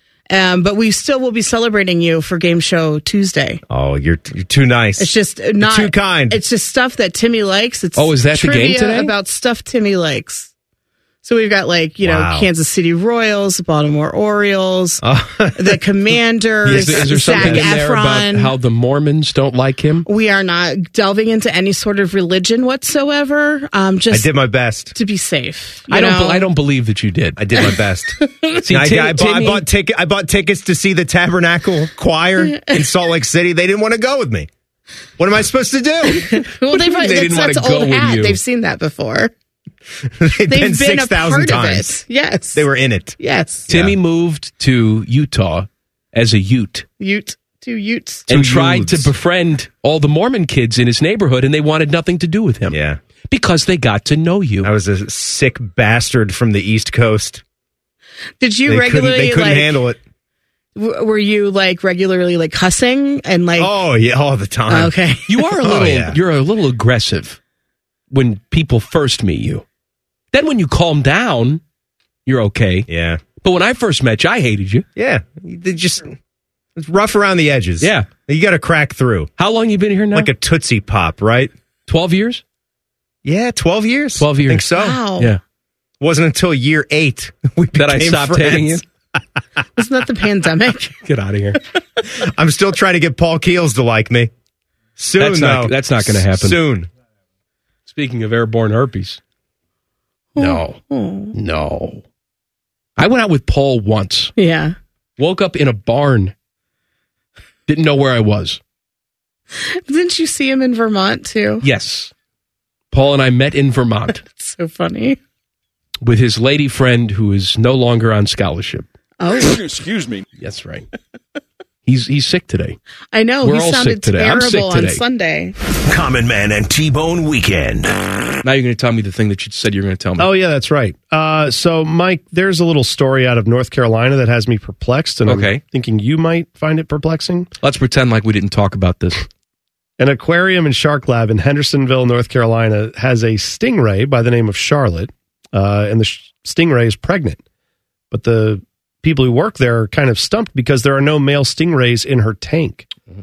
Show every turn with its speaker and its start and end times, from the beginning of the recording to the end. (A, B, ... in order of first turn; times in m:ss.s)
0:00.3-0:03.6 A
0:03.7-0:06.4 B
0:05.0-0:10.5 A
0:08.0-0:09.1 C
0:11.2-0:18.5 A
0:12.0-0:12.5 B
0:15.0-0:15.8 B
0:16.6-0:17.7 B
0:16.7-0:20.1 C
0:20.1-0:24.4 A
0:24.1-0:24.9 B
0:24.9-0:26.5 A
0:25.9-0:27.7 C
0:27.4-0:34.5 B
0:28.2-0:28.6 A
0:28.6-0:29.6 C
0:35.2-0:36.3 B
0:36.1-0:39.3 A
0:36.7-0:38.4 C
0:40.2-0:41.9 B
0:40.5-0:42.6 A
0:42.6-0:43.2 B
0:43.2-0:43.7 A
0:43.7-0:44.0 B
0:43.7-0:46.8 C
0:47.0-0:48.3 A
0:48.3-0:49.1 B
0:48.3-0:52.8 C
0:52.7-0:53.0 B
0:53.3-0:54.7 C
0:54.6-0:57.4 B
0:58.4-0:59.8 A
0:58.7-1:00.0 B
1:00.8-1:03.7 A
1:03.6-1:04.9 B
1:04.7-1:05.3 A
1:05.3-1:07.4 C
1:05.6-1:06.2 B
1:08.1-1:09.6 C
1:10.3-1:11.6 C
1:12.3-1:12.9 C
1:12.9-1:13.2 B
1:13.4-1:14.9 C
1:15.0-1:16.2 B
1:16.8-1:19.3 B
1:17.8-1:18.1 C
1:19.4-1:20.3 C
1:20.1-1:21.5 B
1:21.9-1:22.4 C
1:23.2-1:25.0 B
1:24.2-1:24.7 C
1:24.8-1:25.3 A
1:26.0-1:28.8 B
1:27.8-1:28.8 C
1:29.8-1:31.0 A
1:31.0-1:31.6 C
1:32.1-1:34.3 B
1:35.0-1:36.9 B
1:35.2-1:36.6 C
1:37.9-1:39.2 C
1:40.4-1:41.4 A
1:40.4-1:40.8 C
1:41.3-1:42.0 C
1:43.0-1:44.3 C
1:44.4-1:44.8 A
1:45.2-1:46.3 C
1:47.7-1:48.6 C
1:49.6-1:51.6 A
1:51.6-1:52.1 C
1:52.9-1:54.2 C
1:54.2-1:55.2 A
1:56.0-1:58.9 C
1:59.2-1:59.7 A
2:00.4-2:00.9 C
2:01.9-2:02.8 C
2:03.1-2:05.6 A
2:03.4-2:05.0 C
2:05.9-2:08.0 D
2:08.4-2:10.3 C
2:10.2-2:17.5 E
2:15.2-2:15.6 C
2:17.6-2:19.3 C
2:20.0-2:27.4 E
2:28.1-2:32.9 E